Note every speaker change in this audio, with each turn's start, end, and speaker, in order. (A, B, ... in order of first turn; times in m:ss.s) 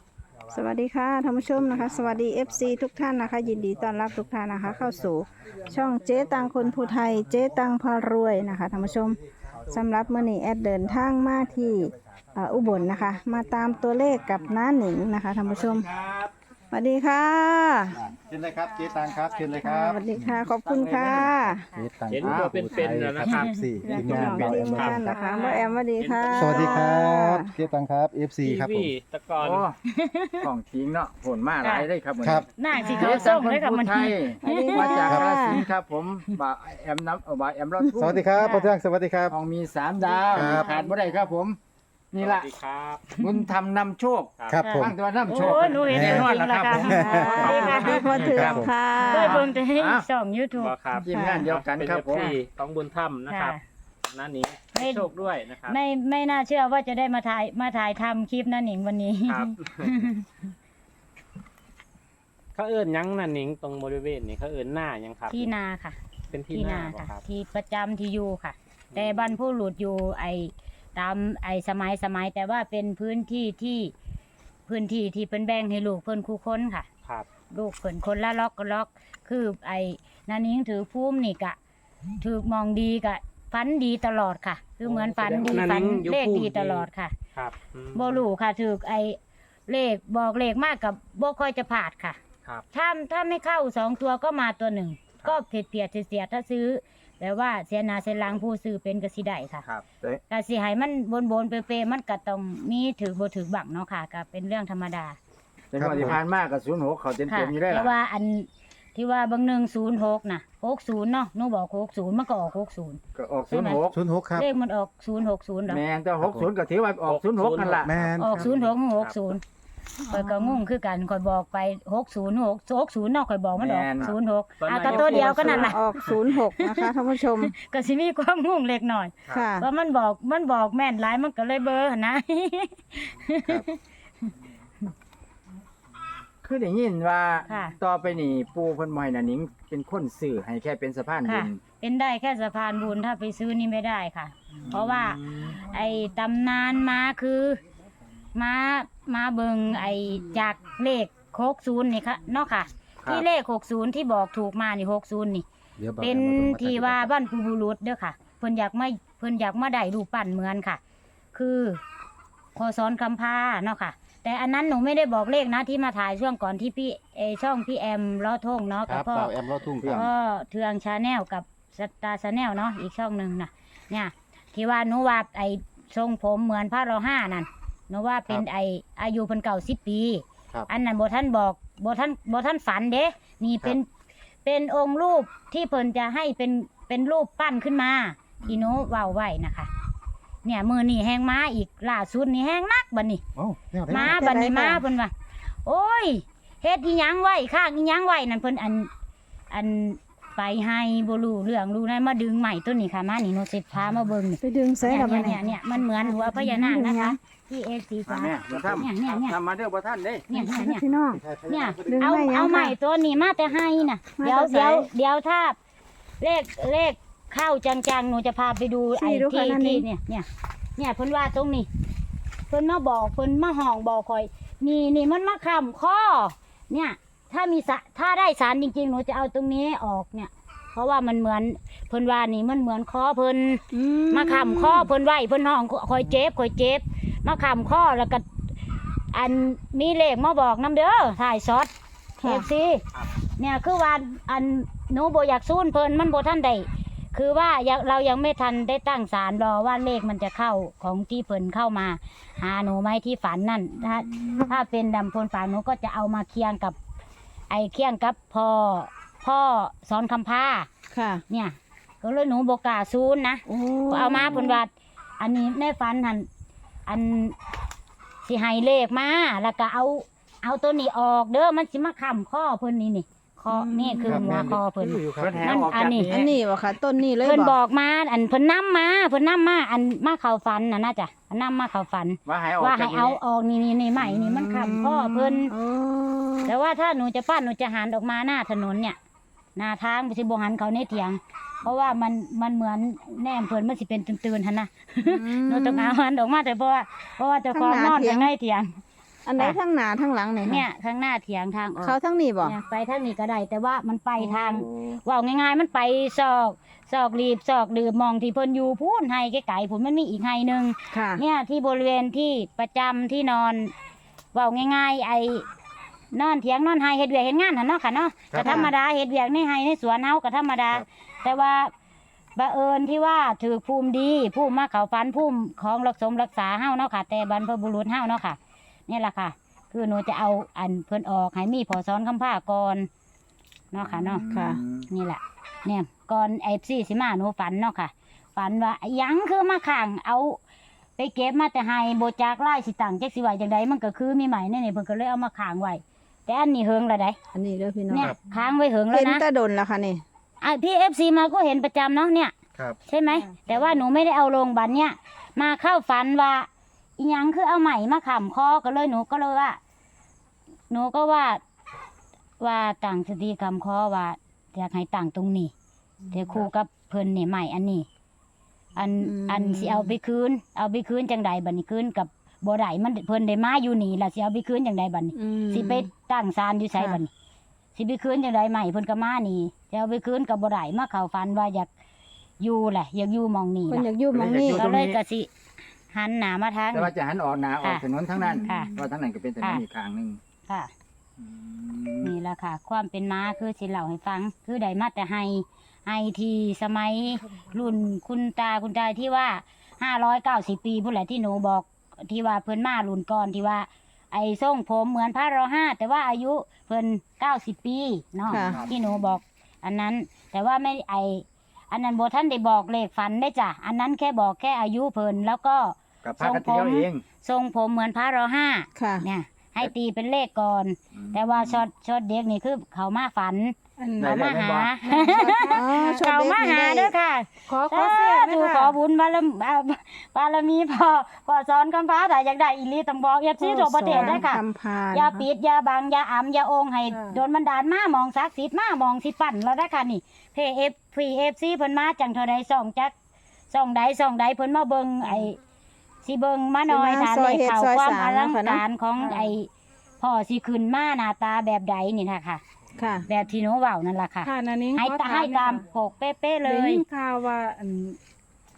0:00.5-0:15.9 A
0:01.5-0:02.6 B
0:07.3-0:07.6 C
0:08.7-0:09.2 C
0:09.5-0:10.2 B
0:13.6-0:14.5 B
0:15.4-0:16.3 B
0:16.7-0:18.0 A
0:18.2-0:20.4 C
0:19.6-0:21.7 A
0:20.7-0:21.2 D
0:21.8-0:25.2 C
0:22.0-0:27.0 D
0:22.2-0:22.6 B
0:23.8-0:27.5 A
0:24.0-0:24.7 B
0:25.1-0:25.6 E
0:26.3-0:28.9 C
0:28.4-0:29.7 D
0:29.4-0:29.7 B
0:29.9-0:30.5 E
0:30.4-0:38.2 B
0:31.6-0:31.9 E
0:32.2-0:32.5 C
0:32.6-0:35.2 E
0:32.7-0:33.2 A
0:34.4-0:35.6 A
0:38.0-0:39.3 C
0:38.4-0:38.7 E
0:39.3-0:41.6 B
0:40.3-0:40.7 D
0:40.3-0:40.7 C
0:40.4-0:40.9 E
0:42.1-0:42.5 B
0:42.2-0:43.2 D
0:43.1-0:47.2 B
0:44.4-0:44.7 D
0:44.5-0:44.9 C
0:44.6-0:50.7 E
0:45.3-0:49.5 D
0:45.9-0:47.6 C
0:47.2-0:49.5 A
0:48.2-0:48.7 C
0:49.7-0:50.0 B
0:50.5-0:55.8 D
0:51.0-0:52.4 B
0:51.1-0:51.5 A
0:53.3-0:53.6 E
0:54.7-0:55.1 E
0:55.6-1:00.2 E
0:59.2-0:59.9 D
1:02.5-1:05.5 D
1:05.3-1:06.0 E
1:06.3-1:07.2 D
1:06.5-1:13.9 E
1:08.9-1:09.4 D
1:14.7-1:16.9 E
1:17.5-1:21.6 E
1:22.2-1:27.2 E
1:24.8-1:28.2 D
1:27.9-1:32.2 E
1:32.7-1:39.6 E
1:40.3-1:45.2 E
1:45.7-1:47.9 B
1:45.8-1:46.2 C
1:47.3-1:55.8 E
1:53.2-1:54.0 B
1:53.9-1:54.5 C
1:55.7-1:57.9 B
1:56.2-1:56.5 C
1:57.0-1:59.2 D
1:57.8-1:58.5 C
1:58.2-1:59.4 E
2:00.1-2:00.6 A
2:00.1-2:05.9 E
2:03.6-2:04.1 B
2:04.0-2:06.0 D
2:04.9-2:07.5 A
2:06.6-2:13.7 E
2:09.3-2:09.7 A
2:16.4-2:21.6 B
2:17.5-2:17.8 E
2:21.2-2:27.6 E
2:24.7-2:25.5 B
2:28.3-2:35.5 E
2:35.8-2:37.1 C
2:36.0-2:40.8 E
2:41.3-2:41.8 E
2:42.6-3:03.9 E
2:48.9-2:50.1 C
2:49.8-2:50.1 B
3:04.4-3:09.7 E
3:08.4-3:08.8 B
3:10.4-3:13.2 E
3:13.3-3:14.2 C
3:13.9-3:15.1 E
3:14.0-3:14.8 A
3:15.6-3:18.9 E
3:19.5-3:29.4 E
3:24.4-3:27.2 A
3:28.1-3:30.3 B
3:30.3-3:30.8 E
3:30.3-3:31.2 A
3:31.1-3:32.2 C
3:31.5-3:35.6 E
3:31.9-3:32.8 A
3:34.2-3:34.9 A
3:36.2-3:41.7 E
3:39.0-3:39.8 A
3:42.5-3:58.2 E
3:53.7-3:54.9 A
3:59.1-4:01.7 E
4:02.2-4:02.5 A
4:02.2-4:02.8 E
4:03.4-4:16.8 E
4:14.1-4:14.5 B
4:17.5-4:20.7 E
4:20.9-4:21.2 A
4:21.3-4:26.3 E
4:23.5-4:24.6 A
4:26.9-4:27.4 E
4:28.2-4:36.3 E
4:33.5-4:34.3 A
4:34.1-4:35.9 C
4:34.8-4:36.3 B
4:36.0-4:37.6 A
4:37.2-4:45.5 E
4:42.2-4:43.2 B
4:44.0-4:44.2 B
4:44.4-4:46.5 A
4:46.4-4:49.0 E
4:49.6-4:58.8 E
4:55.0-4:56.0 A
4:57.5-4:58.3 A
4:59.2-5:00.6 A
5:00.4-5:13.7 E
5:01.8-5:02.6 A
5:10.9-5:11.2 A
5:14.3-5:15.4 E
5:16.1-5:21.7 E
5:18.3-5:18.6 C
5:18.4-5:18.7 A
5:22.4-5:28.4 E
5:28.9-5:32.9 E
5:33.7-5:34.2 E
5:33.8-5:34.9 B
5:34.3-5:34.6 A
5:34.9-5:40.4 E
5:41.0-5:47.2 E
5:47.3-5:48.1 A
5:47.9-5:49.2 E
5:48.9-5:50.0 A
5:50.4-5:52.3 E
5:52.9-5:59.6 E
5:53.1-5:53.5 F
6:00.7-6:01.4 E
6:02.4-6:05.5 E
6:06.1-6:07.9 E
6:08.8-6:17.1 E
6:09.0-6:10.0 A
6:15.2-6:15.9 A
6:17.8-6:21.7 E
6:22.4-6:23.9 E
6:23.7-6:24.7 A
6:24.1-6:25.0 B
6:24.6-6:25.3 E
6:25.9-6:26.9 E
6:26.7-6:30.2 B
6:28.2-6:28.7 A
6:28.4-6:28.7 E
6:31.2-6:32.1 B
6:32.0-7:22.9 E
6:48.3-6:48.6 A
6:48.5-6:49.0 B
6:56.0-6:57.0 B
6:58.8-6:59.0 A
7:00.9-7:01.6 B
7:03.8-7:04.2 F
7:04.0-7:04.8 B
7:04.8-7:06.0 F
7:05.5-7:06.9 A
7:07.4-7:08.8 F
7:13.4-7:15.2 A
7:13.9-7:14.2 F
7:16.9-7:17.2 F
7:23.5-7:25.4 E
7:26.0-7:32.4 E
7:26.7-7:28.6 A
7:29.0-7:29.3 F
7:32.8-7:33.0 A
7:33.1-7:36.8 E
7:34.2-7:35.6 F
7:36.4-7:38.0 F